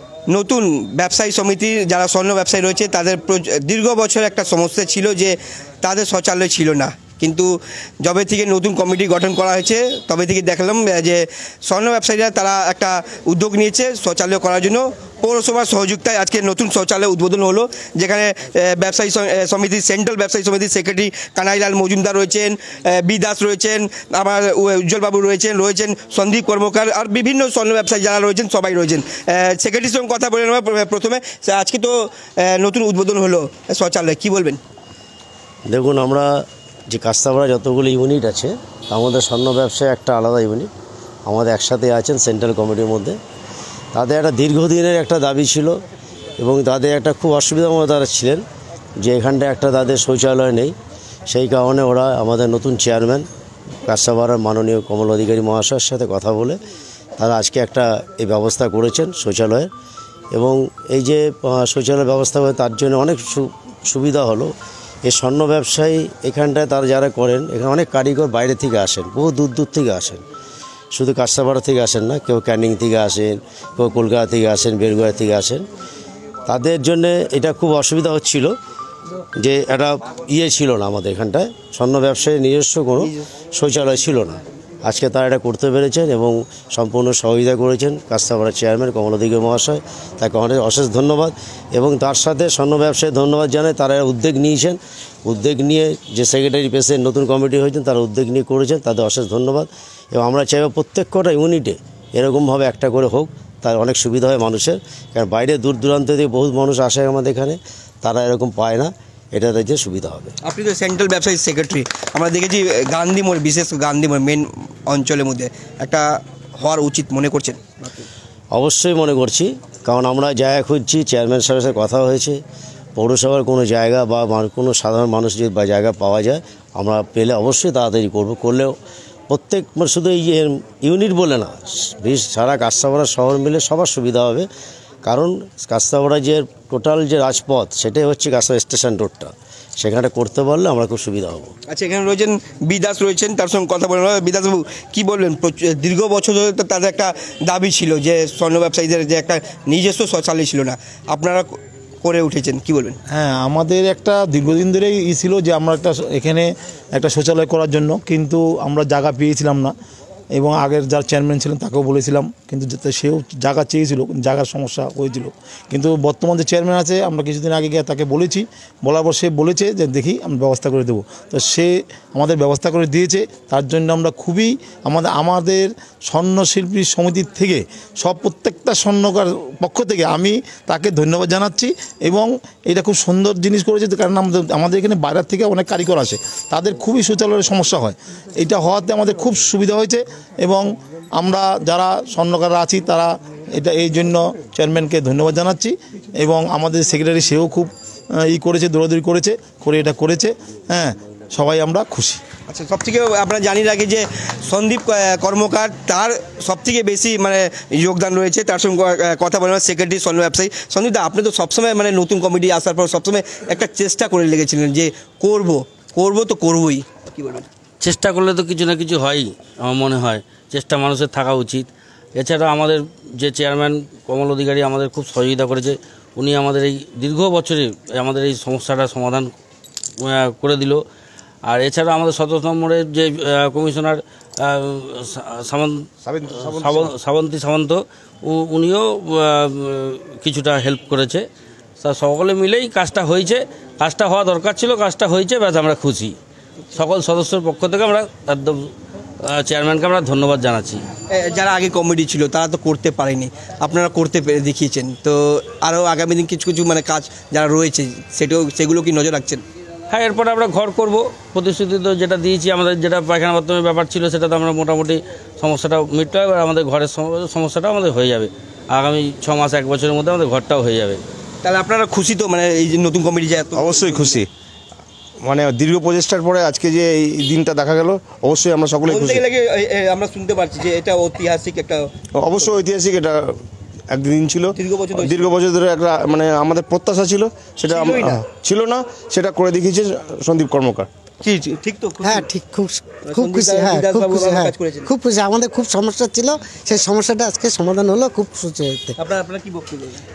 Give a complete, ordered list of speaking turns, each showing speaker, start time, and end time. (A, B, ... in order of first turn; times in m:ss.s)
0:00.3-0:07.5 A
0:08.0-0:34.6 A
0:35.7-0:40.7 B
0:41.3-0:43.2 B
0:44.0-0:45.8 B
0:46.4-0:48.4 B
0:49.0-0:50.8 B
0:51.3-0:53.3 B
0:53.9-0:56.6 B
0:57.2-0:59.7 B
1:00.4-1:04.5 B
1:05.1-1:10.2 B
1:10.9-1:15.6 B
1:16.5-1:18.6 B
1:19.4-1:50.3 B
1:50.4-1:56.0 A
1:56.6-1:58.0 A
1:58.5-2:02.4 B
2:03.0-2:08.8 B
2:09.3-2:14.5 B
2:15.0-2:21.5 B
2:21.7-2:31.5 A
2:32.0-2:33.0 A
2:33.1-2:39.7 C
2:40.4-3:10.6 C
3:11.2-3:17.7 C
3:18.2-3:22.2 C
3:22.5-3:37.5 A
3:37.8-3:49.3 D
3:50.0-3:50.8 D
3:51.4-3:55.9 D
3:56.1-3:56.9 E
3:56.4-4:01.2 D
4:01.8-4:06.2 D
4:06.7-4:08.7 D
4:09.3-4:10.8 D
4:11.1-4:19.4 A
4:19.9-4:31.0 D
4:31.4-4:34.2 A
4:33.5-4:34.3 E
4:35.2-4:39.2 E
4:38.8-4:42.6 A
4:42.2-4:43.3 E
4:43.9-4:50.9 E
4:44.5-4:45.3 A
4:47.7-4:48.3 A
4:51.2-4:52.3 A
4:52.0-4:59.0 F
4:53.0-4:54.9 A
4:59.0-5:00.0 A